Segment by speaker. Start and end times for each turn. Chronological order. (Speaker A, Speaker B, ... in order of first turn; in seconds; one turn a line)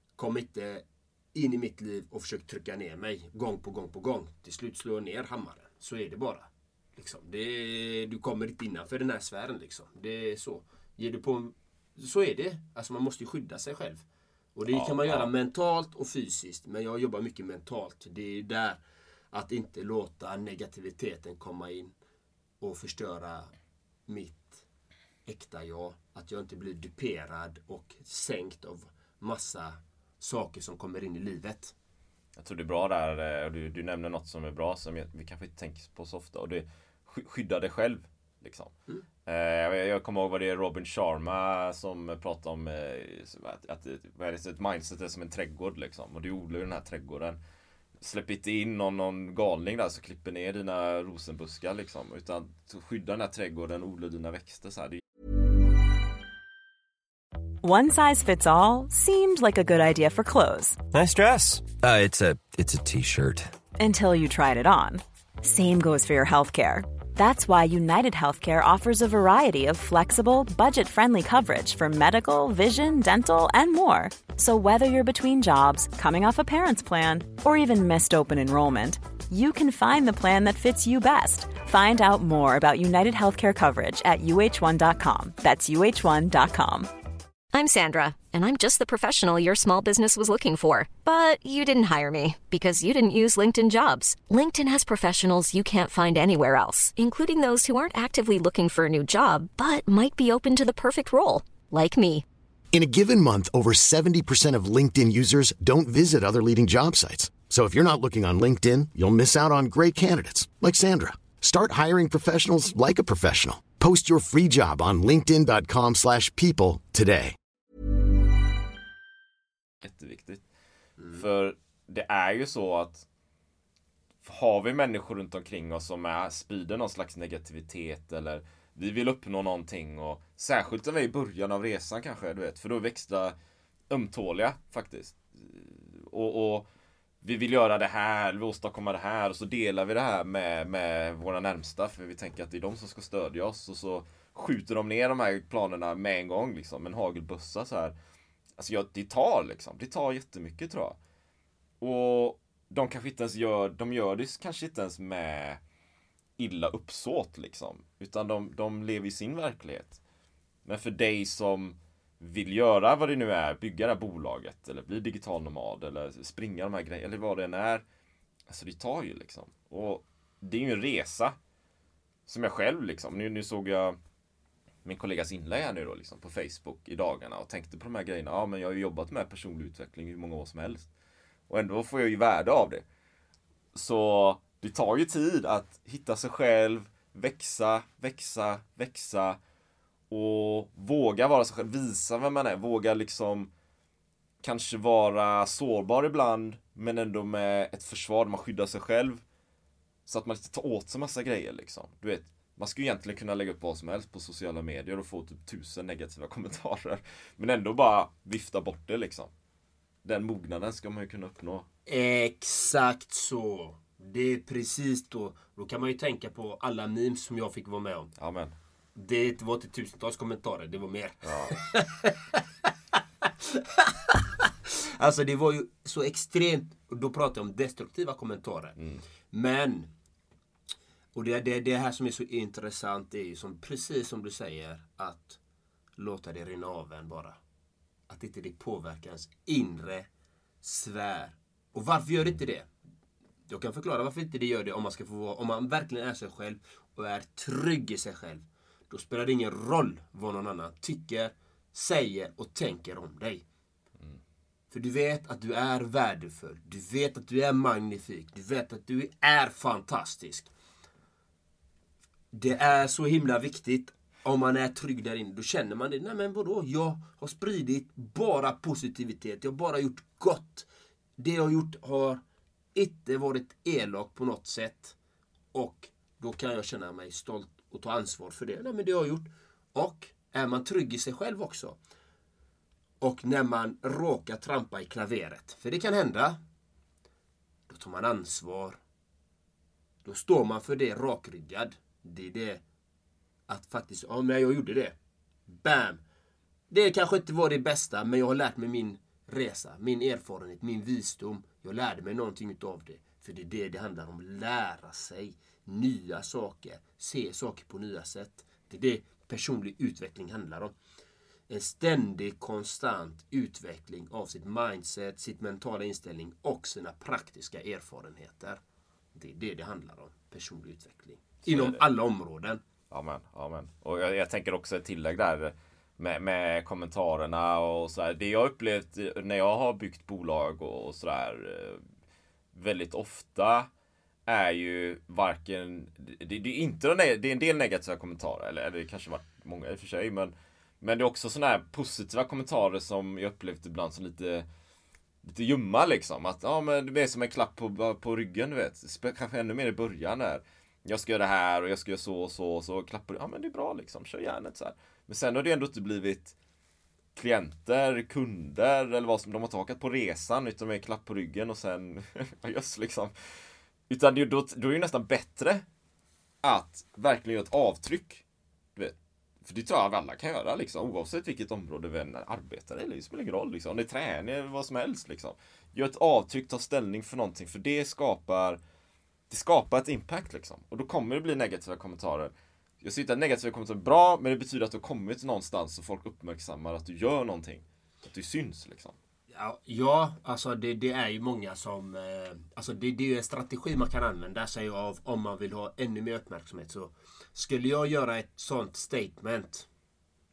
Speaker A: 0.2-14.0
Speaker A: 14.6-18.8
Speaker B: 14.7-15.3
Speaker A: 19.3-21.9
Speaker A: 22.6-23.5
Speaker A: 24.1-24.6
Speaker A: 25.3-31.7
Speaker B: 32.4-38.7
Speaker B: 39.3-47.4
Speaker B: 48.0-55.0
Speaker C: 57.6-60.8
Speaker D: 60.9-63.5
Speaker C: 63.8-86.9
Speaker E: 87.5-102.2
Speaker F: 102.7-117.3
Speaker B: 119.8-120.4
Speaker B: 121.1-123.0
Speaker B: 124.2-133.3
Speaker B: 133.9-136.7
Speaker B: 137.2-147.9
Speaker B: 148.6-151.0
Speaker B: 151.8-155.6
Speaker B: 156.4-160.0
Speaker B: 160.7-167.8
Speaker B: 168.5-171.4
Speaker B: 172.3-174.0
Speaker B: 174.8-180.9
Speaker B: 181.5-182.8
Speaker B: 183.8-189.4
Speaker B: 190.1-193.5
Speaker B: 194.4-199.2
Speaker B: 200.1-209.3
Speaker B: 210.0-211.7
Speaker A: 211.9-218.1
Speaker B: 218.2-218.5
Speaker A: 218.9-222.4
Speaker B: 221.2-221.5
Speaker A: 223.2-228.8
Speaker A: 229.3-229.9
Speaker A: 231.2-235.4
Speaker A: 236.0-237.4
Speaker A: 238.1-240.1
Speaker A: 240.6-242.7
Speaker A: 243.5-253.4
Speaker A: 254.7-260.5
Speaker A: 262.3-270.7
Speaker A: 271.2-272.2
Speaker A: 272.8-275.0
Speaker A: 275.5-281.8
Speaker A: 283.0-286.4
Speaker A: 287.7-288.8
Speaker A: 290.1-292.6
Speaker A: 293.5-295.0
Speaker A: 295.5-296.0
Speaker A: 296.7-310.8
Speaker A: 311.5-318.6
Speaker A: 319.1-322.6
Speaker B: 321.4-321.8
Speaker B: 322.9-331.8
Speaker B: 332.6-333.7
Speaker B: 334.3-344.5
Speaker B: 345.2-356.3
Speaker B: 357.2-363.1
Speaker B: 363.9-365.6
Speaker B: 366.4-368.2
Speaker B: 368.8-378.6
Speaker B: 379.3-389.0
Speaker A: 389.3-399.7